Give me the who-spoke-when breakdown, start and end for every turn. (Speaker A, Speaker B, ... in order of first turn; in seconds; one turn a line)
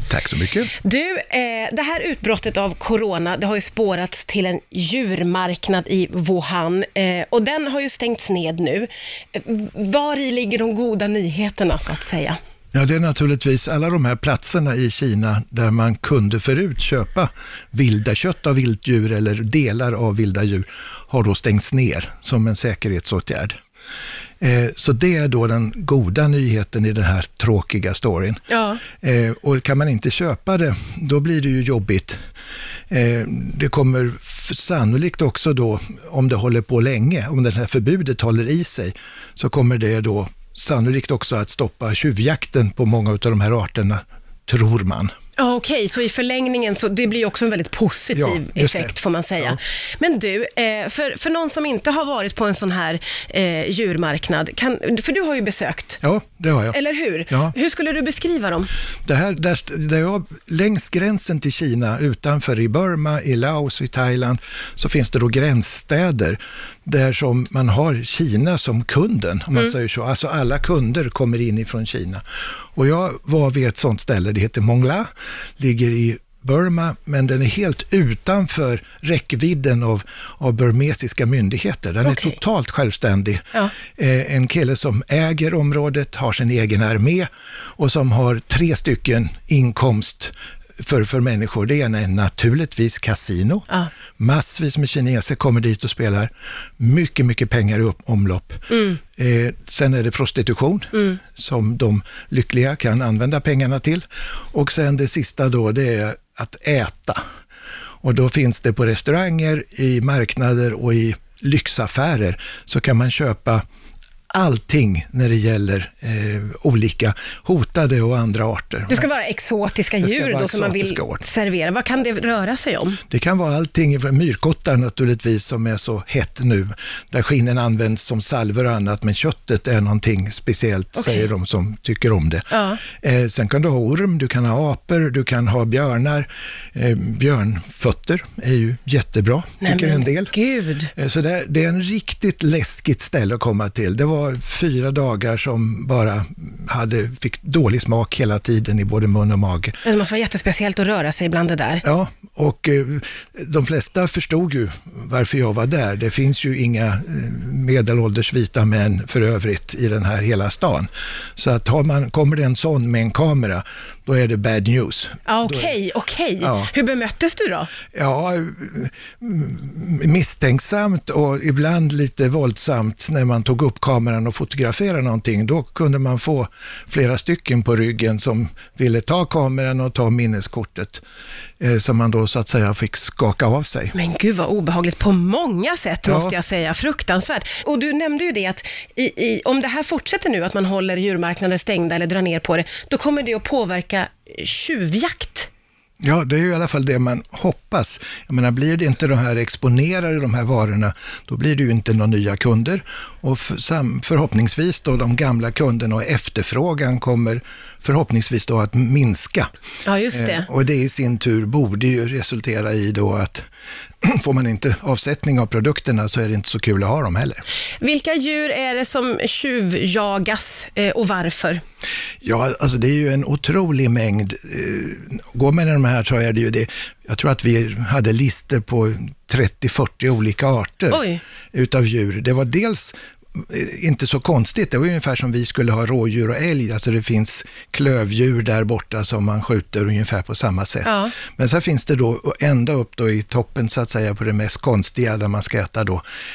Speaker A: 0.1-0.7
Speaker B: 0.8-12.4
Speaker A: 12.7-23.6
Speaker A: 24.4-32.2
Speaker B: 28.5-28.8
Speaker A: 32.9-45.1
Speaker B: 45.4-56.0
Speaker A: 48.1-49.6
Speaker A: 56.0-56.8
Speaker B: 56.7-58.7
Speaker A: 57.3-57.5
Speaker A: 59.1-72.2
Speaker A: 72.8-93.7
Speaker B: 82.0-82.4
Speaker A: 94.2-107.2
Speaker B: 98.7-99.0
Speaker A: 108.0-113.6
Speaker A: 114.3-119.1
Speaker B: 118.9-123.0
Speaker A: 120.0-121.2
Speaker A: 123.1-140.3
Speaker B: 131.0-131.3
Speaker B: 132.5-132.8
Speaker B: 139.6-140.9
Speaker A: 140.9-149.8
Speaker B: 149.8-151.8
Speaker A: 151.8-165.7
Speaker B: 165.3-167.7
Speaker A: 166.4-166.7
Speaker A: 167.9-181.0
Speaker A: 181.6-183.9
Speaker B: 183.9-195.5
Speaker A: 186.1-186.3
Speaker A: 196.0-209.5
Speaker B: 209.8-210.5
Speaker A: 210.1-213.4
Speaker A: 214.0-217.4
Speaker B: 217.8-221.6
Speaker A: 222.2-231.0
Speaker B: 230.9-231.2
Speaker A: 231.5-246.0
Speaker B: 240.8-241.1